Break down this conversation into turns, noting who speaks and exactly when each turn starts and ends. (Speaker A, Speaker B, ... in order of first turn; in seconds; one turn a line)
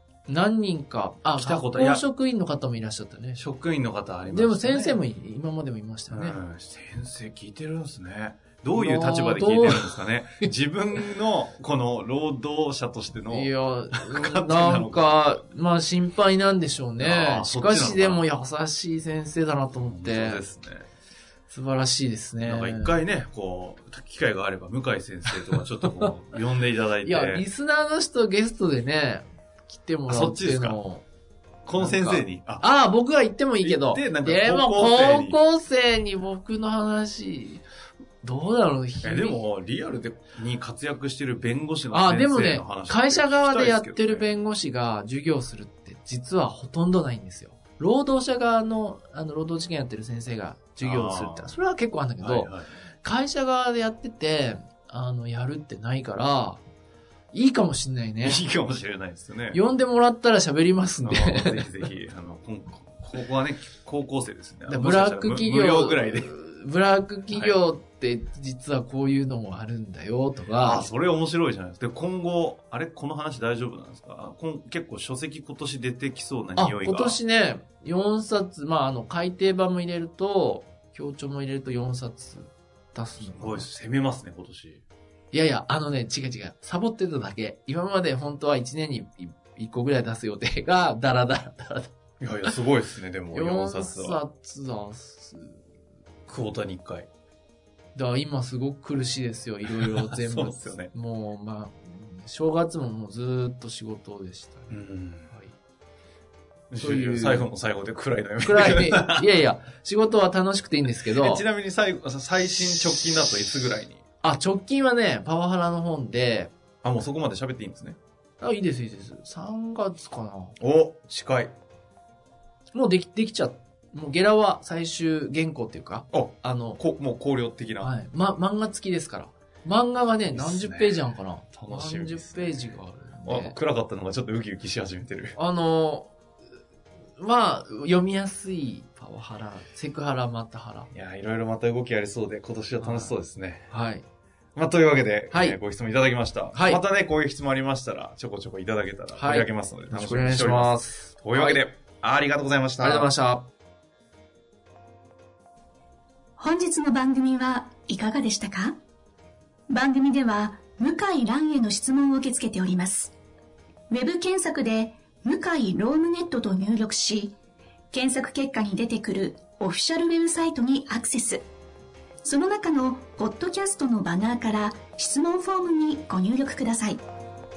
Speaker A: 0.3-3.5
Speaker B: 1.4-2.0
Speaker B: 3.4-5.0
Speaker A: 4.3-6.4
Speaker B: 6.1-15.3
Speaker A: 8.7-10.5
Speaker A: 13.3-20.4
Speaker B: 17.0-18.2
Speaker B: 19.9-20.9
Speaker A: 21.5-23.0
Speaker B: 22.4-27.4
Speaker A: 25.6-26.1
Speaker A: 27.0-31.0
Speaker B: 30.1-30.8
Speaker B: 31.6-32.6
Speaker A: 31.8-37.6
Speaker B: 33.6-35.4
Speaker A: 38.2-39.4
Speaker B: 39.0-44.3
Speaker A: 41.9-56.6
Speaker B: 50.8-51.6
Speaker B: 52.2-52.7
Speaker A: 57.3-58.4
Speaker B: 58.2-59.6
Speaker A: 59.5-61.7
Speaker B: 61.0-66.3
Speaker A: 64.7-70.9
Speaker B: 67.3-67.6
Speaker B: 70.5-77.2
Speaker A: 76.5-83.7
Speaker B: 83.2-84.8
Speaker A: 85.3-91.9
Speaker B: 92.2-94.2
Speaker A: 93.3-95.6
Speaker B: 96.3-97.1
Speaker A: 97.9-104.8
Speaker B: 99.6-100.9
Speaker B: 104.7-105.3
Speaker B: 106.7-109.3
Speaker A: 106.8-107.5
Speaker A: 108.4-111.4
Speaker B: 111.0-114.0
Speaker A: 114.2-116.5
Speaker B: 116.8-118.0
Speaker A: 118.4-120.6
Speaker B: 120.6-121.5
Speaker A: 122.7-126.8
Speaker B: 126.1-127.9
Speaker A: 127.8-133.6
Speaker B: 130.3-135.4
Speaker A: 135.3-136.1
Speaker A: 137.2-140.9
Speaker B: 140.9-143.7
Speaker A: 142.8-143.2
Speaker A: 143.7-144.1
Speaker B: 144.5-153.1
Speaker A: 145.3-145.6
Speaker A: 146.5-146.8
Speaker A: 149.1-151.6
Speaker A: 152.8-153.5
Speaker C: 156.4-158.8
Speaker C: 159.7-163.1
Speaker C: 163.9-167.4
Speaker C: 167.9-171.5
Speaker C: 172.2-177.0